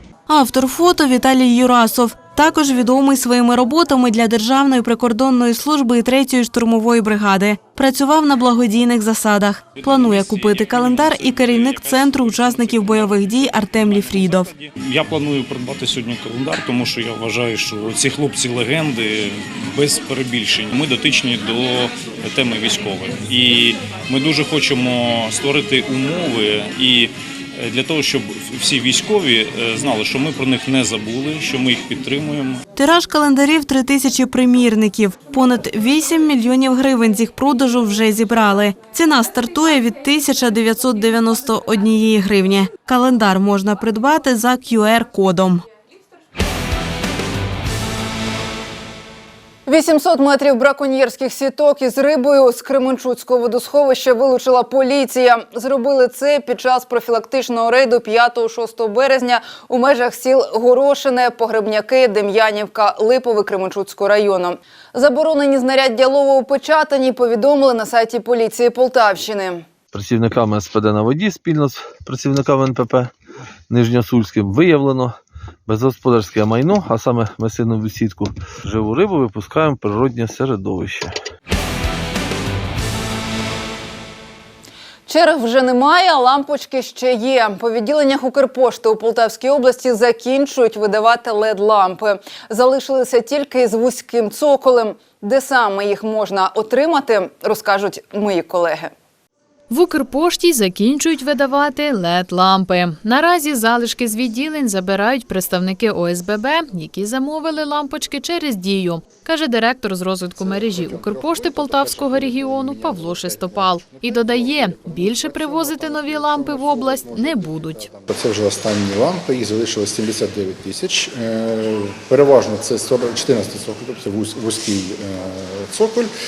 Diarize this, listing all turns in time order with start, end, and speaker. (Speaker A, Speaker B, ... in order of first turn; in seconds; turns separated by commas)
Speaker A: 0.3-14.5, Speaker B: 10.0-12.9, Speaker B: 14.1-32.6, Speaker A: 32.7-45.6, Speaker C: 49.7-69.6, Speaker D: 69.9-73.1, Speaker D: 73.7-75.2, Speaker D: 75.7-81.1, Speaker C: 85.1-98.9, Speaker E: 99.7-117.9, Speaker F: 110.4-126.1